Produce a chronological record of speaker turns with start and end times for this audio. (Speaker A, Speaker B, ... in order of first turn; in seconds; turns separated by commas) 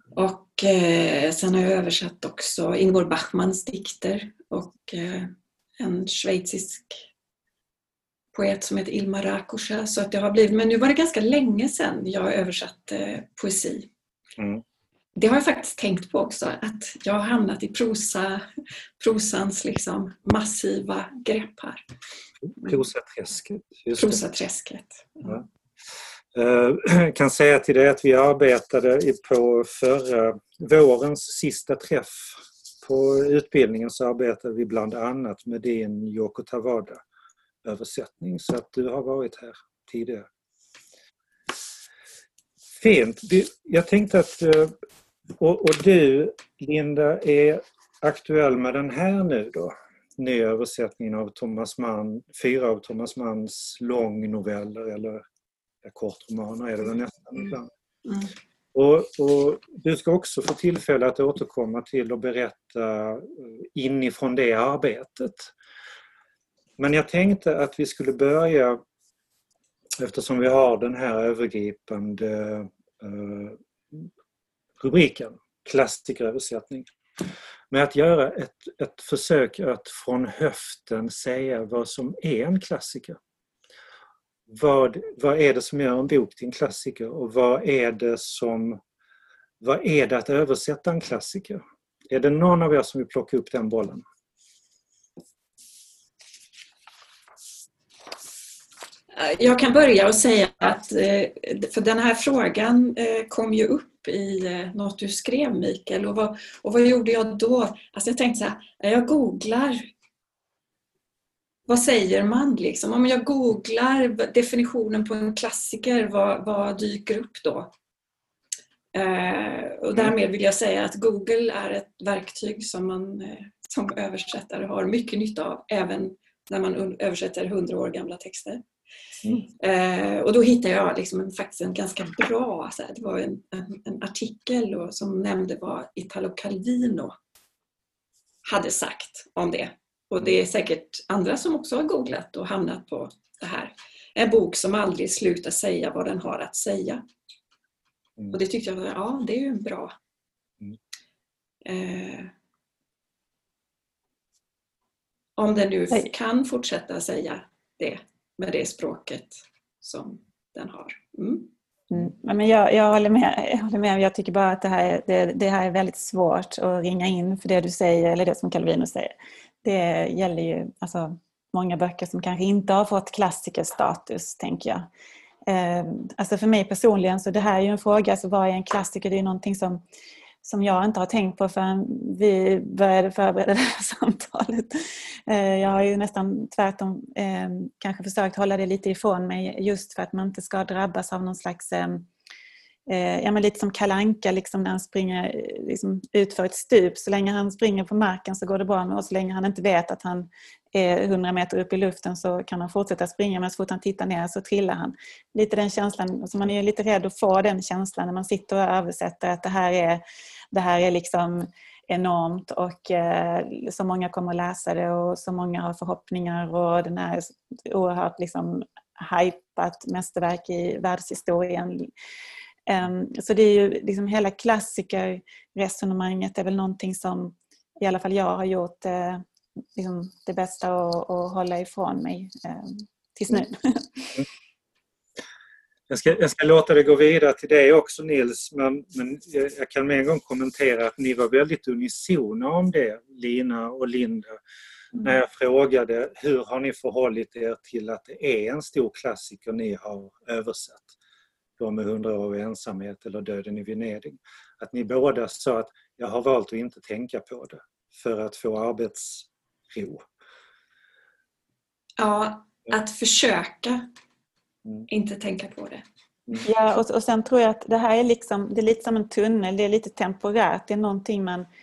Speaker A: 0.1-7.0, Speaker A: 8.3-13.9, Speaker B: 14.4-14.6, Speaker A: 15.2-18.5, Speaker A: 19.0-21.9, Speaker B: 22.4-24.2, Speaker A: 24.0-25.4, Speaker B: 26.3-37.0, Speaker B: 37.6-40.3, Speaker B: 42.8-44.8, Speaker B: 45.4-55.2, Speaker B: 55.8-57.7, Speaker B: 58.7-65.5, Speaker B: 66.8-68.8, Speaker B: 70.0-74.1, Speaker B: 74.8-83.2, Speaker B: 84.5-88.8, Speaker B: 89.6-94.0, Speaker A: 99.1-109.9, Speaker A: 111.7-117.7, Speaker A: 118.9-128.6, Speaker A: 129.6-137.2, Speaker A: 138.5-147.0, Speaker A: 148.3-149.9, Speaker A: 151.7-152.3, Speaker A: 155.4-161.5, Speaker C: 161.9-174.9, Speaker C: 175.5-179.8, Speaker C: 180.4-192.1, Speaker C: 192.9-221.9, Speaker C: 222.7-229.2, Speaker C: 229.8-234.2, Speaker B: 235.9-244.4, Speaker B: 245.0-250.9, Speaker B: 251.6-260.1, Speaker A: 262.0-263.9, Speaker A: 264.9-265.8, Speaker C: 266.4-271.5